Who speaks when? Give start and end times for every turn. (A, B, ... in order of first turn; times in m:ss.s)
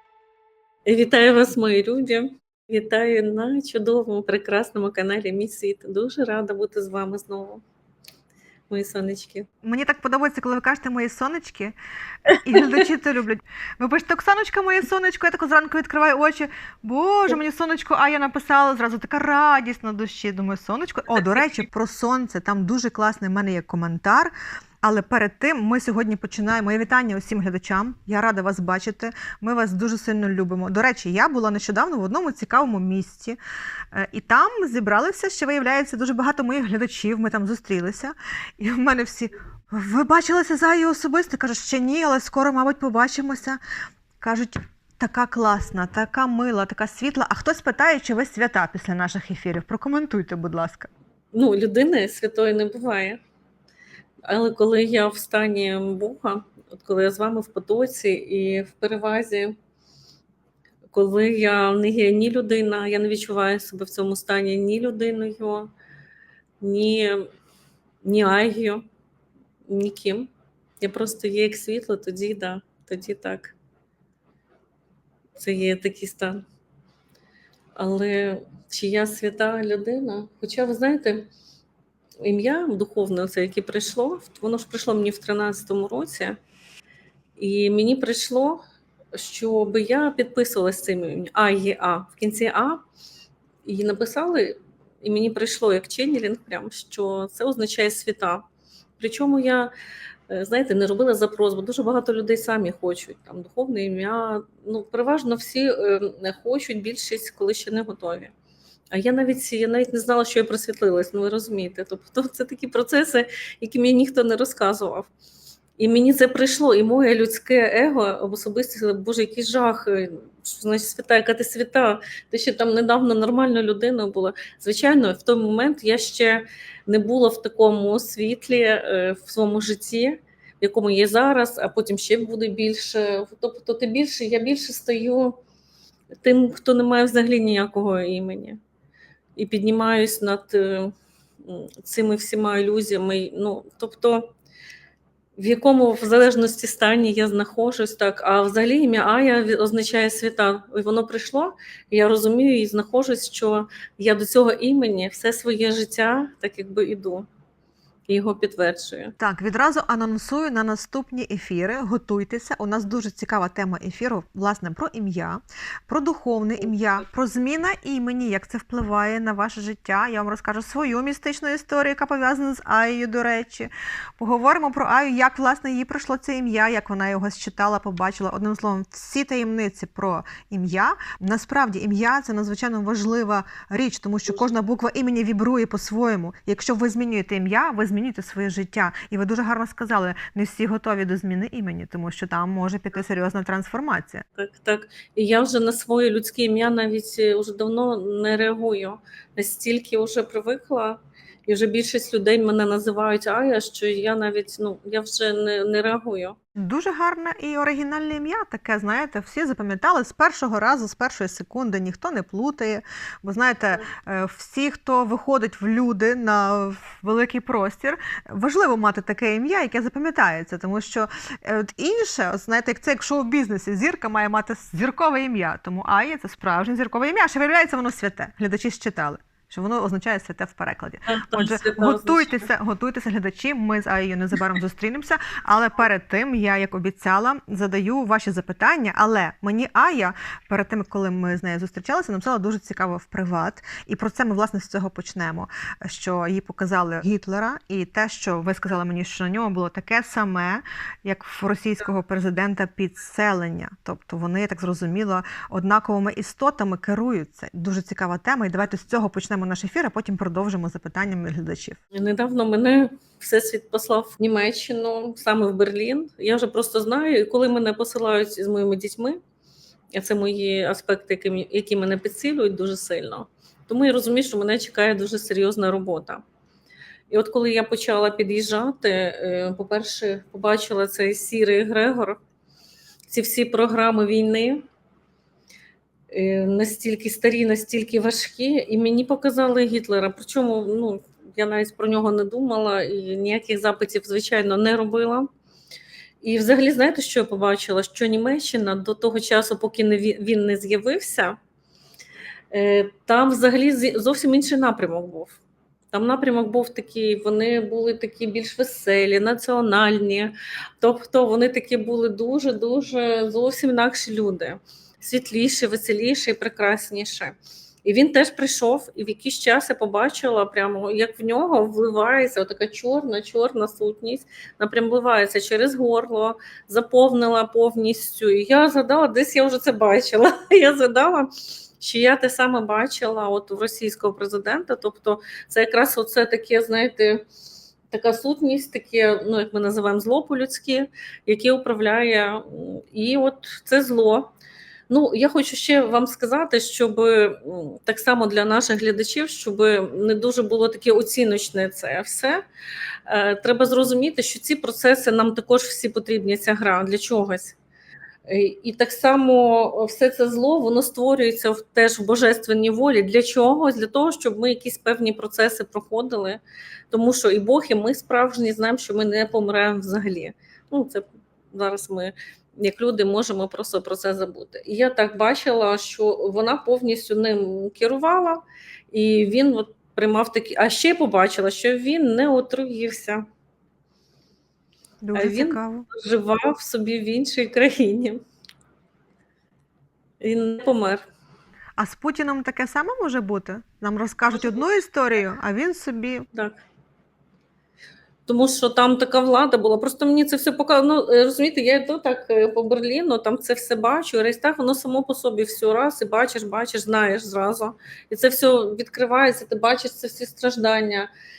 0:00.9-0:07.6 A
0:08.7-0:09.5 A
0:09.6-0:11.8 B
0:12.3-0:12.7 A
0:12.4-0:33.4 B
0:21.2-0:21.5 A
0:33.9-0:43.6 B
0:44.2-0:50.9 B
0:51.3-0:53.2 A
0:54.3-0:59.6 A
1:00.9-1:05.7 A
1:06.6-1:07.2 A
1:08.0-1:08.8 A
1:09.7-1:10.3 A
1:10.8-1:13.6 A
1:15.4-1:16.4 A
1:17.8-1:21.3 A
1:22.2-1:26.4 A
1:27.4-1:28.6 A
1:29.1-1:32.8 A
1:33.6-1:38.4 A
1:39.0-1:39.7 A
1:40.3-1:48.3 A
1:48.9-1:55.1 A
1:55.8-2:15.4 A
2:16.2-2:18.6 A
2:19.4-2:20.9 A
2:21.4-2:24.3 A
2:25.4-2:37.3 A
2:38.1-2:39.2 A
2:39.2-3:14.2 B
2:46.6-2:47.1 A
3:14.4-3:26.4 A
3:26.6-4:21.8 B
3:51.1-3:52.5 A
4:21.9-4:29.2 A
4:29.9-4:36.2 A
4:37.1-4:42.2 A
4:43.1-4:44.6 A
4:46.1-4:55.3 A
4:56.2-5:01.4 A
5:02.5-5:05.4 A
5:05.9-5:37.2 A
5:37.9-5:44.3 A
5:44.9-5:52.4 A
5:53.1-5:57.6 A
5:58.3-6:06.4 A
6:06.9-6:23.2 A
6:25.0-6:25.9 B
6:25.2-6:28.2 A
6:30.2-6:31.0 A
6:31.8-6:36.3 B
6:36.3-6:36.6 A
6:38.3-6:51.1 A